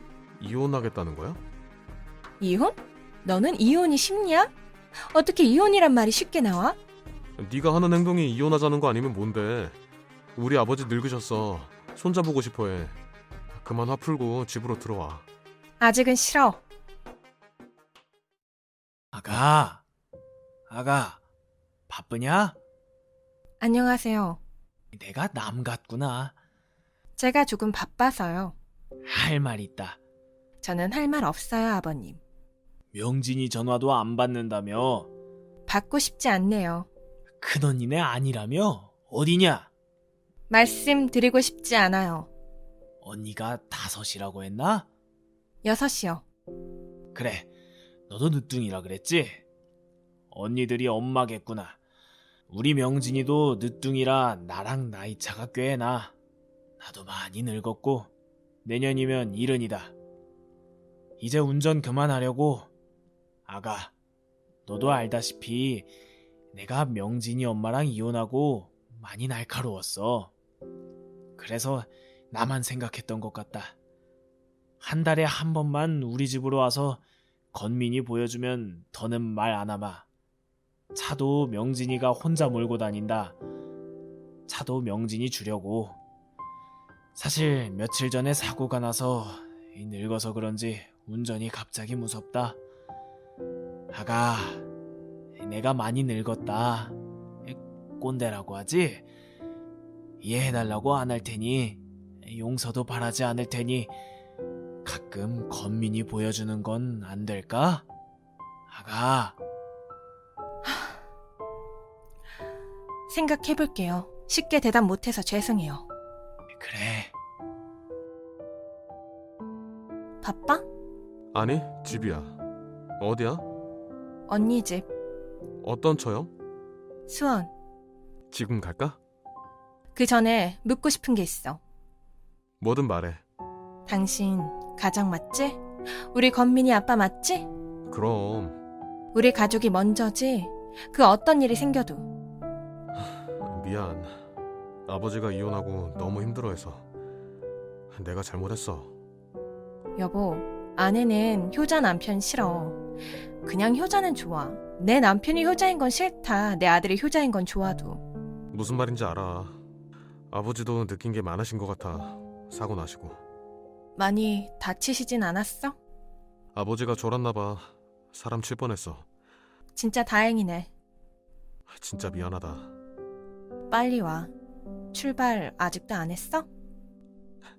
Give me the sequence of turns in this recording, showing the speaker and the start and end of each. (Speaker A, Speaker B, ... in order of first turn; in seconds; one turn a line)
Speaker A: 0.4-1.4
Speaker B: 2.4-4.5
Speaker B: 5.1-6.8
Speaker A: 7.4-9.8
Speaker A: 10.3-12.9
Speaker A: 13.6-15.2
Speaker B: 15.8-16.6
Speaker C: 19.1-19.8
Speaker C: 20.7-21.2
Speaker C: 21.9-22.6
Speaker B: 23.6-24.4
Speaker C: 24.9-26.3
Speaker B: 27.2-28.5
Speaker C: 29.1-30.0
Speaker B: 30.6-32.2
Speaker C: 32.9-35.1
Speaker B: 35.7-36.9
Speaker C: 37.4-39.7
Speaker B: 40.5-42.3
Speaker C: 43.0-44.9
Speaker B: 45.6-46.2
Speaker C: 47.1-47.5
Speaker C: 48.1-49.4
Speaker C: 50.3-51.8
Speaker C: 52.5-56.1
Speaker C: 56.8-58.1
Speaker C: 58.6-59.9
Speaker C: 61.2-62.7
Speaker C: 63.5-63.9
Speaker C: 64.7-65.9
Speaker C: 66.5-70.3
Speaker C: 71.4-73.7
Speaker C: 74.8-77.0
Speaker C: 77.5-80.0
Speaker C: 80.9-83.3
Speaker C: 84.5-86.0
Speaker C: 87.2-92.6
Speaker C: 93.9-94.7
Speaker C: 95.4-99.1
Speaker C: 100.2-103.9
Speaker C: 104.8-107.8
Speaker C: 108.7-109.4
Speaker B: 113.1-115.9
Speaker C: 116.6-117.1
Speaker B: 120.2-120.6
Speaker A: 121.3-122.4
Speaker A: 123.0-123.5
Speaker B: 124.3-124.8
Speaker A: 125.6-126.3
Speaker B: 127.1-127.5
Speaker A: 128.3-129.0
Speaker B: 129.9-131.6
Speaker A: 132.6-133.2
Speaker B: 133.9-137.5
Speaker A: 137.9-138.6
Speaker B: 139.1-142.1
Speaker A: 143.1-144.2
Speaker A: 144.9-146.8
Speaker A: 147.9-148.9
Speaker B: 150.0-152.8
Speaker B: 153.4-158.0
Speaker A: 158.5-159.6
Speaker A: 160.3-163.2
Speaker B: 163.9-165.8
Speaker A: 166.5-169.0
Speaker B: 169.7-170.7
Speaker A: 171.7-172.7
Speaker B: 173.7-174.3
Speaker B: 174.9-176.5